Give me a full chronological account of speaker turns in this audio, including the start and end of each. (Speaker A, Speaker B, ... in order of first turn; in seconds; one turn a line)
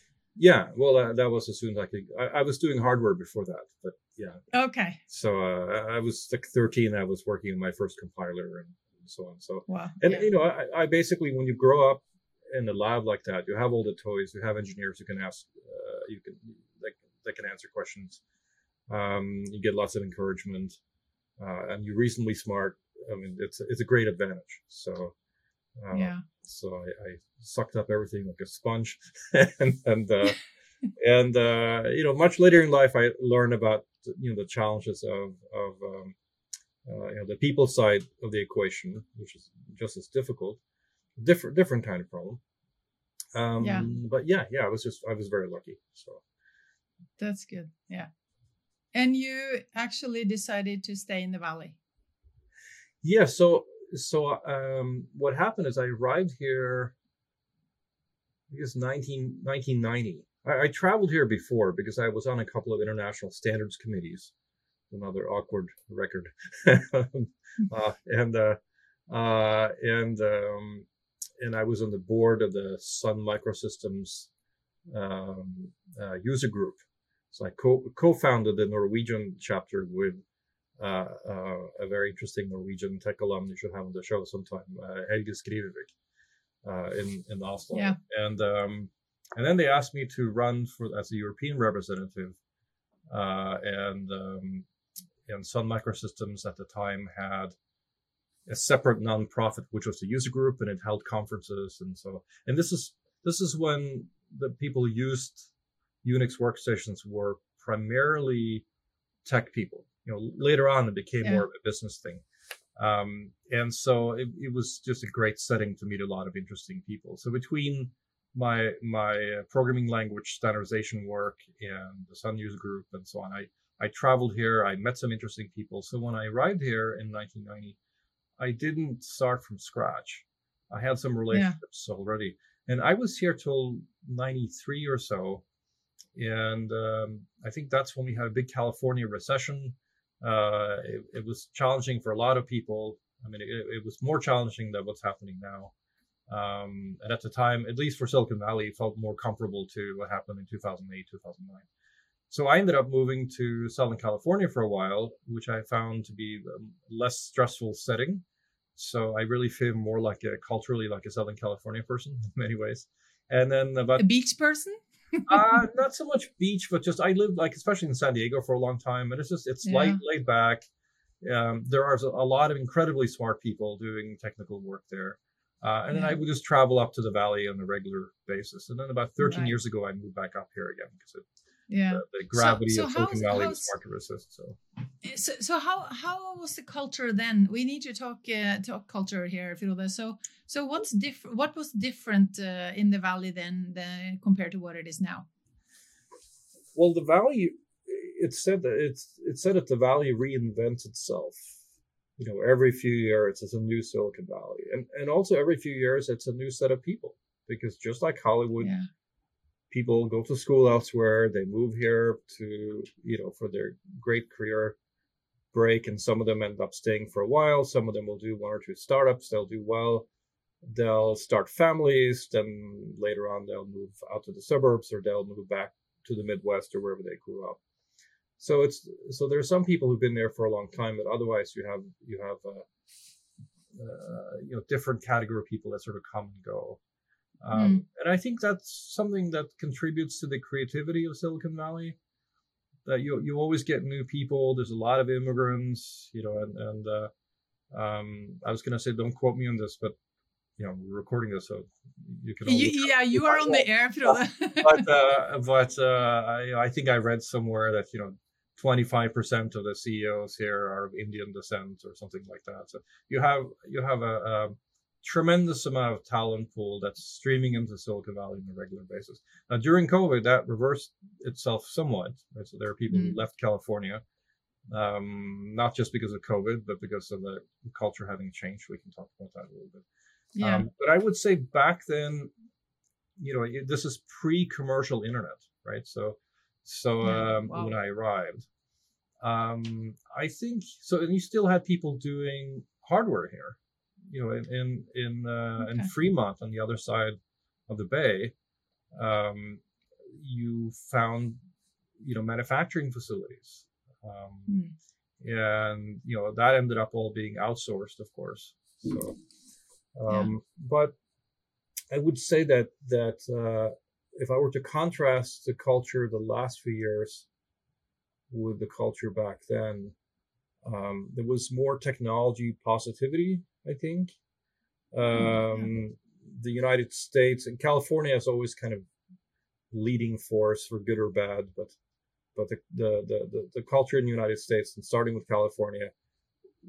Speaker A: 0.4-4.4
Speaker B: 4.5-5.0
Speaker A: 5.1-18.2
Speaker B: 9.7-10.2
Speaker A: 18.9-20.8
Speaker A: 21.4-25.1
Speaker A: 25.8-30.4
Speaker B: 25.9-26.2
Speaker A: 31.0-36.1
Speaker A: 36.9-40.6
Speaker A: 41.2-42.4
Speaker A: 43.4-46.2
Speaker B: 43.6-43.9
Speaker B: 47.2-48.1
Speaker B: 48.9-51.8
Speaker A: 53.0-56.9
Speaker A: 58.5-64.3
Speaker A: 64.9-70.9
Speaker A: 71.4-74.3
Speaker A: 74.9-80.2
Speaker A: 80.8-85.9
Speaker A: 86.6-92.4
Speaker A: 93.1-94.7
Speaker A: 95.3-97.6
Speaker A: 98.5-105.5
Speaker A: 106.0-108.7
Speaker A: 109.2-112.2
Speaker A: 112.8-127.8
Speaker A: 128.4-135.4
Speaker B: 131.3-131.6
Speaker A: 136.2-145.7
Speaker A: 146.3-151.7
Speaker A: 152.3-158.2
Speaker A: 158.8-164.1
Speaker B: 164.0-165.5
Speaker A: 165.3-170.6
Speaker B: 169.7-170.0
Speaker A: 171.2-181.2
Speaker B: 175.9-176.2
Speaker B: 179.2-179.5
Speaker B: 181.7-183.7
Speaker A: 181.9-184.6
Speaker B: 185.0-195.3
Speaker A: 196.8-201.6
Speaker A: 202.2-208.7
Speaker B: 208.6-208.9
Speaker A: 209.7-214.8
Speaker A: 215.5-220.1
Speaker A: 220.7-227.6
Speaker A: 228.4-232.7
Speaker A: 233.7-236.8
Speaker A: 237.4-242.0
Speaker B: 237.5-237.8
Speaker A: 242.9-247.1
Speaker A: 247.7-249.9
Speaker A: 250.6-274.0
Speaker B: 252.4-254.9
Speaker B: 272.9-273.2
Speaker A: 274.7-279.8
Speaker B: 280.3-280.7
Speaker A: 280.4-282.3
Speaker A: 283.2-288.5
Speaker B: 287.0-287.7
Speaker A: 289.2-293.6
Speaker A: 294.1-298.3
Speaker B: 295.6-295.9
Speaker A: 298.9-299.6
Speaker A: 300.2-301.4
Speaker A: 302.0-304.6
Speaker B: 304.5-304.7
Speaker A: 305.2-309.2
Speaker A: 310.0-311.0
Speaker A: 311.9-317.3
Speaker A: 318.3-319.9
Speaker A: 320.6-324.2
Speaker A: 324.9-328.9
Speaker B: 325.1-325.7
Speaker A: 329.7-331.8
Speaker A: 332.4-335.9